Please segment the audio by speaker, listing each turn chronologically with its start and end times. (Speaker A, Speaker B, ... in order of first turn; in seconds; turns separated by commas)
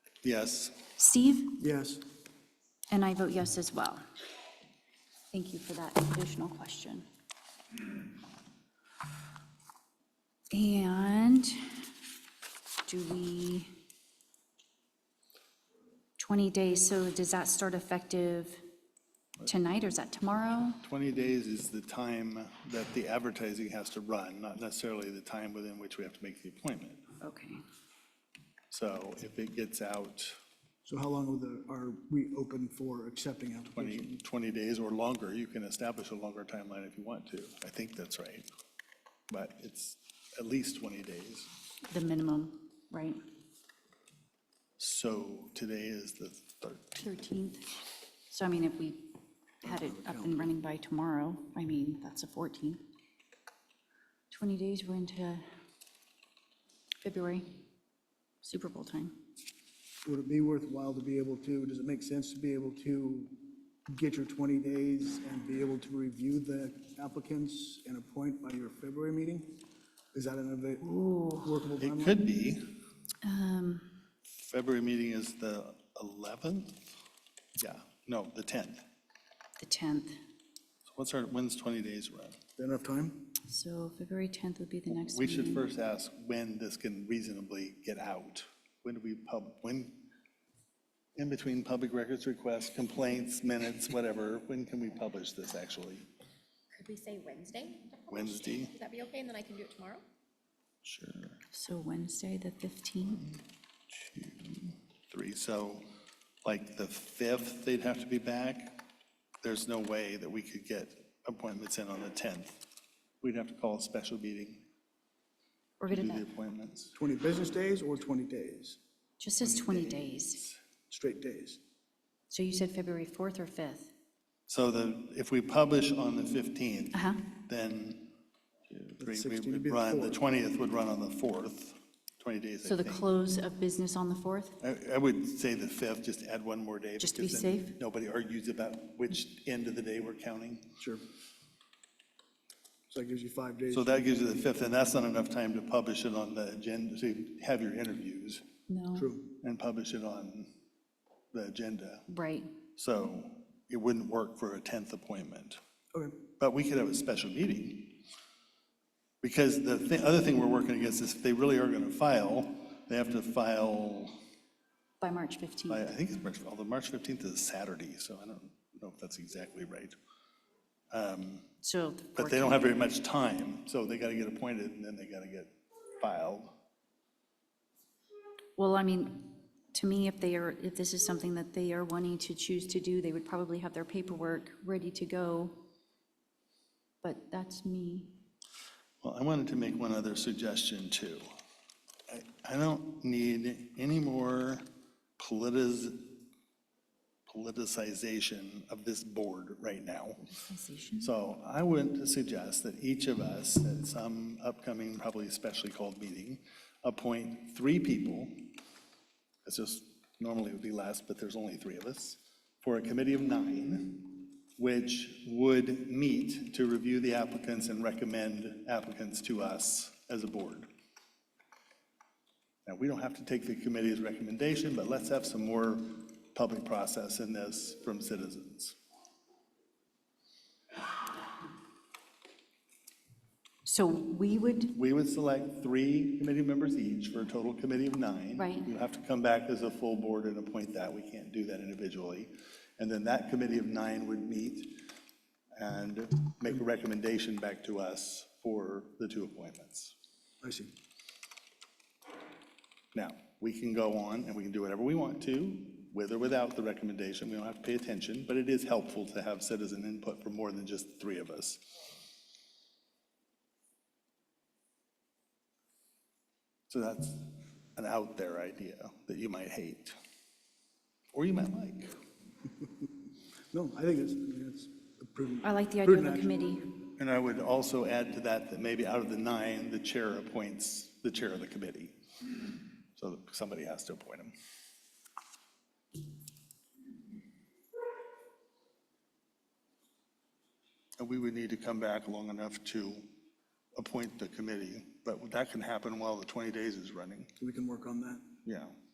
Speaker A: 0.2-0.8, Speaker B: 1.0-1.6, Speaker C: 1.6-2.0, Speaker B: 2.9-4.0, Speaker B: 5.3-7.0, Speaker B: 10.5-11.8, Speaker B: 12.8-13.7, Speaker B: 16.2-18.6, Speaker B: 19.4-20.8, Speaker A: 20.8-27.0, Speaker B: 27.2-27.6, Speaker A: 28.7-30.4, Speaker C: 30.9-34.2, Speaker A: 33.7-38.5, Speaker A: 39.3-41.5, Speaker B: 41.9-43.2, Speaker A: 44.8-47.1, Speaker B: 47.0-47.7, Speaker B: 48.3-52.8, Speaker C: 49.6-50.5, Speaker B: 54.3-55.4, Speaker B: 57.0-57.6, Speaker B: 58.4-59.1, Speaker C: 60.0-63.3, Speaker C: 63.9-69.6, Speaker C: 70.1-72.3, Speaker B: 70.8-71.5, Speaker A: 71.8-72.6, Speaker B: 73.2-74.0, Speaker A: 74.4-76.8, Speaker A: 77.6-78.8, Speaker B: 79.6-80.2, Speaker A: 80.9-82.4, Speaker C: 82.6-83.3, Speaker B: 83.4-85.7, Speaker A: 84.9-90.1, Speaker A: 91.2-96.1, Speaker D: 96.7-100.0, Speaker A: 98.1-98.8, Speaker A: 100.8-101.4, Speaker B: 101.5-103.4, Speaker A: 103.9-105.8, Speaker A: 106.4-108.8, Speaker A: 109.4-112.6, Speaker A: 113.2-114.6, Speaker B: 115.8-116.3, Speaker A: 115.9-116.9, Speaker C: 116.9-118.8, Speaker B: 119.2-120.4, Speaker A: 119.4-120.6, Speaker C: 120.9-121.6, Speaker B: 122.3-123.9, Speaker A: 124.5-128.1, Speaker B: 126.9-127.3, Speaker A: 128.7-133.1, Speaker C: 129.0-130.2, Speaker B: 132.6-134.6, Speaker A: 134.6-140.7, Speaker B: 137.0-137.8, Speaker C: 142.9-144.1, Speaker A: 143.7-148.4, Speaker B: 148.7-149.1, Speaker C: 148.9-149.3, Speaker A: 149.4-150.5, Speaker A: 151.3-152.1, Speaker B: 152.1-152.5, Speaker A: 152.8-155.6, Speaker A: 156.4-158.0, Speaker A: 159.2-164.1, Speaker B: 165.0-165.9, Speaker A: 165.7-169.9, Speaker A: 170.9-171.5, Speaker B: 171.6-172.7, Speaker A: 172.1-176.6, Speaker B: 178.6-185.6, Speaker B: 187.0-188.2, Speaker A: 189.0-191.2, Speaker A: 192.1-194.6, Speaker A: 195.2-196.2, Speaker A: 197.3-200.2, Speaker B: 200.2-201.1, Speaker A: 201.0-208.5, Speaker A: 209.4-220.7, Speaker A: 222.7-228.8, Speaker B: 233.6-234.7, Speaker A: 234.7-244.8, Speaker B: 238.4-238.7, Speaker A: 245.6-249.9, Speaker C: 250.4-250.7, Speaker A: 252.9-261.6, Speaker A: 266.7-269.9, Speaker A: 271.1-271.9, Speaker C: 273.5-276.4, Speaker B: 275.4-276.8, Speaker A: 277.0-281.9, Speaker A: 282.9-284.3, Speaker A: 291.0-293.0, Speaker A: 293.8-297.3, Speaker C: 297.4-298.2, Speaker A: 298.4-298.7